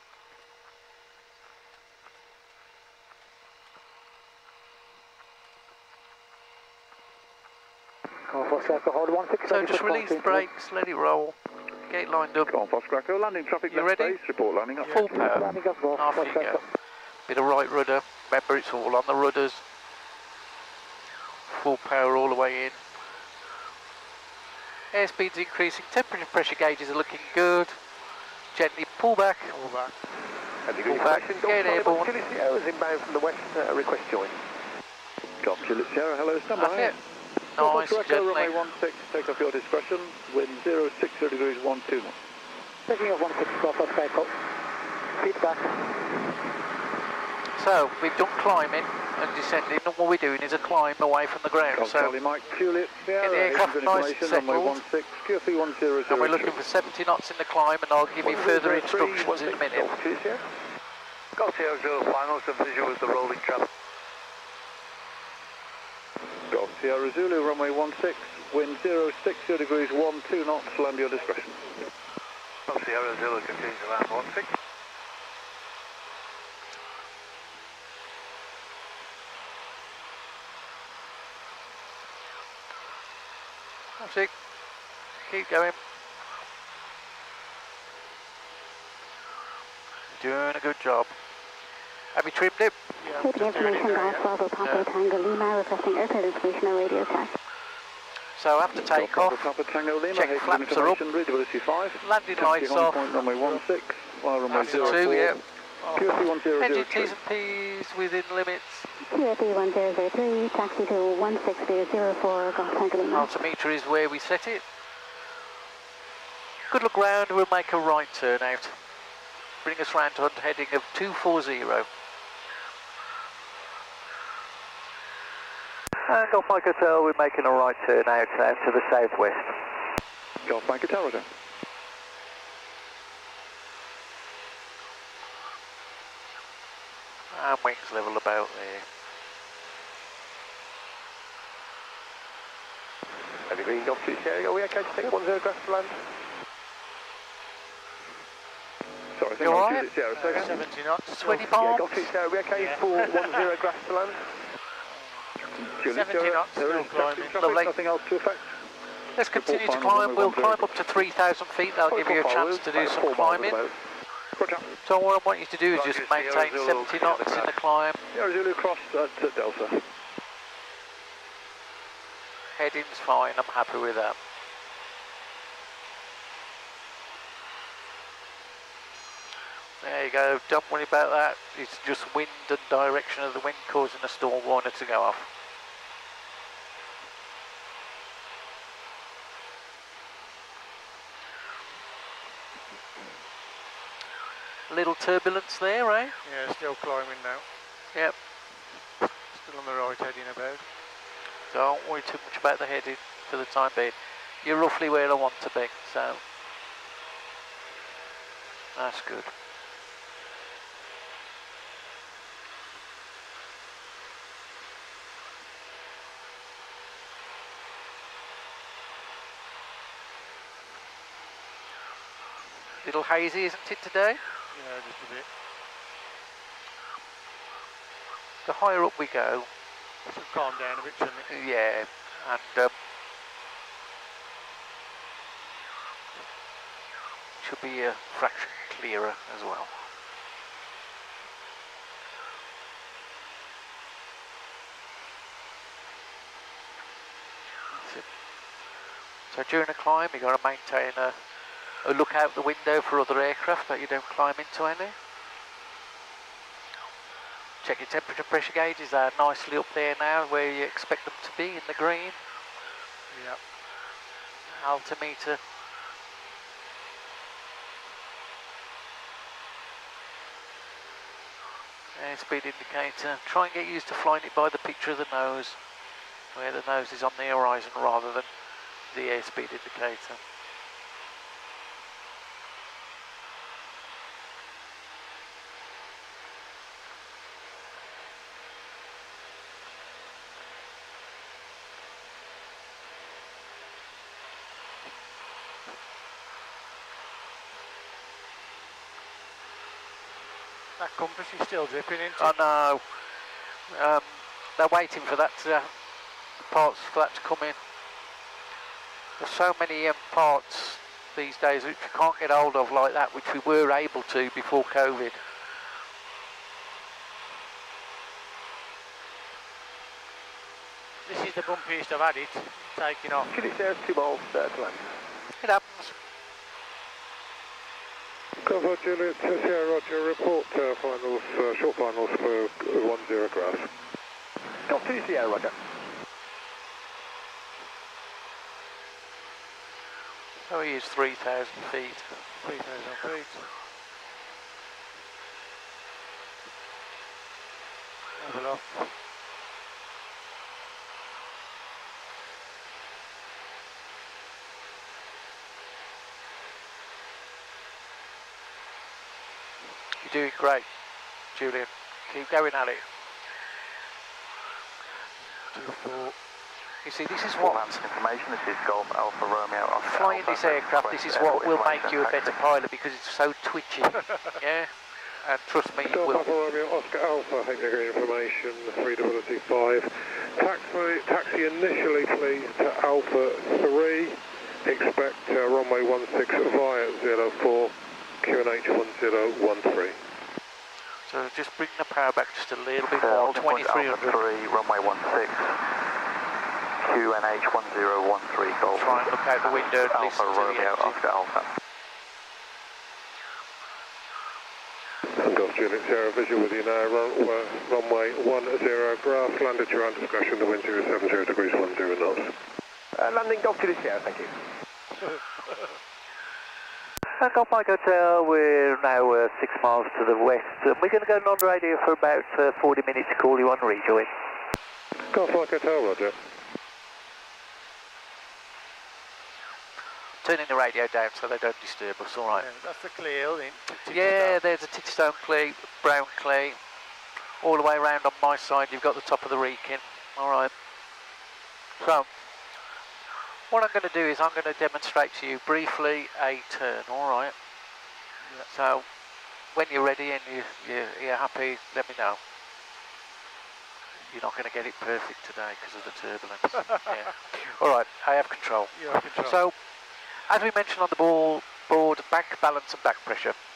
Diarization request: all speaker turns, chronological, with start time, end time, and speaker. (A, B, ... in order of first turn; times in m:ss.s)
0:08.2-0:10.5 A
0:09.4-0:12.5 B
0:12.5-0:15.2 C
0:13.7-0:14.2 B
0:14.8-0:16.6 B
0:15.2-0:16.6 A
0:17.3-0:19.6 B
0:21.5-0:22.8 B
0:24.9-0:29.6 B
0:29.5-0:30.5 D
0:30.6-0:34.5 E
0:30.8-0:32.1 B
0:35.4-0:42.2 C
0:36.6-0:38.6 B
0:42.9-0:44.4 A
0:45.1-0:46.0 A
0:47.6-0:52.2 B
0:51.7-0:56.6 C
0:53.2-0:54.8 B
0:56.1-1:00.0 B
0:58.2-1:00.6 E
1:01.4-1:03.7 F
1:06.5-1:11.8 C
1:12.7-1:14.4 F
1:13.6-1:14.4 C
1:24.0-1:24.4 B
1:25.2-1:25.8 B
1:30.1-1:31.2 B
1:32.1-1:33.0 B
1:33.0-1:34.3 D
1:33.2-1:37.4 G
1:34.6-1:34.9 B
1:38.4-1:39.5 B
1:38.7-1:47.2 C
1:40.1-1:41.0 B
1:42.0-1:43.2 B
1:43.2-1:43.6 D
1:44.5-1:45.2 D
1:44.5-1:45.4 B
1:45.8-1:46.3 D
1:46.6-1:48.9 B
1:49.0-1:53.4 G
1:53.0-1:54.6 B
1:56.7-1:58.8 B
1:59.6-2:01.9 B
2:06.1-2:09.7 B
2:10.4-2:11.3 C
2:17.3-2:18.9 B
2:23.5-2:26.2 E
2:29.1-2:30.5 C
2:29.4-2:29.9 B
2:30.1-2:33.5 D
2:31.2-2:32.1 B
2:31.6-2:34.5 E
2:34.8-2:37.5 D
2:35.6-2:38.7 C
2:37.4-2:37.8 B
2:39.1-2:43.6 B
2:39.3-2:40.8 C
2:41.9-2:43.7 C
2:44.4-2:44.7 C
2:44.8-2:48.0 B
2:45.8-2:47.5 F
2:46.0-2:46.9 C
2:48.1-2:49.9 C
2:52.6-2:54.2 B
2:59.8-3:05.3 B
3:14.7-3:16.2 B
3:16.2-3:17.5 D
3:19.0-3:20.7 D
3:21.5-3:26.2 B
3:28.8-3:29.3 B
3:42.8-3:44.2 B
3:44.5-3:45.3 D
3:48.4-3:49.5 B
3:50.0-3:51.3 D
3:51.3-3:52.7 B
3:57.4-3:59.9 B
4:07.7-4:08.1 B
4:09.3-4:11.2 B
4:11.8-4:15.0 B
4:17.6-4:22.2 B
4:23.1-4:23.4 D
4:24.5-4:25.4 B
4:32.0-4:35.6 B
4:36.3-4:38.3 B
4:38.8-4:40.2 B
5:00.8-5:02.4 D
5:02.2-5:07.6 B
5:09.2-5:15.2 B
5:21.0-5:23.3 D
5:23.3-5:25.1 E
5:25.4-5:25.9 B
5:28.4-5:33.7 H
5:34.6-5:35.8 E
5:40.5-5:42.3 B
5:42.3-5:43.5 D
5:48.2-5:49.0 D
6:00.0-6:02.9 B
6:05.2-6:06.2 D
6:06.8-6:07.9 B
6:07.4-6:12.4 F
6:09.8-6:16.3 B
6:15.8-6:30.1 H
6:31.1-6:34.2 B
6:33.0-6:35.7 F
6:36.8-6:41.5 F
6:38.7-6:41.0 B
6:45.1-6:52.4 H
6:53.0-6:54.4 E
6:57.2-7:04.1 B
7:05.1-7:06.2 H
7:10.2-7:12.5 B
7:12.3-7:14.4 D
7:13.9-7:16.6 B
7:17.4-7:20.5 B
7:21.8-7:22.2 B
7:23.5-7:27.4 B
7:28.2-7:28.5 D
7:28.5-7:32.2 B
7:34.0-7:43.4 B
7:38.7-7:39.4 D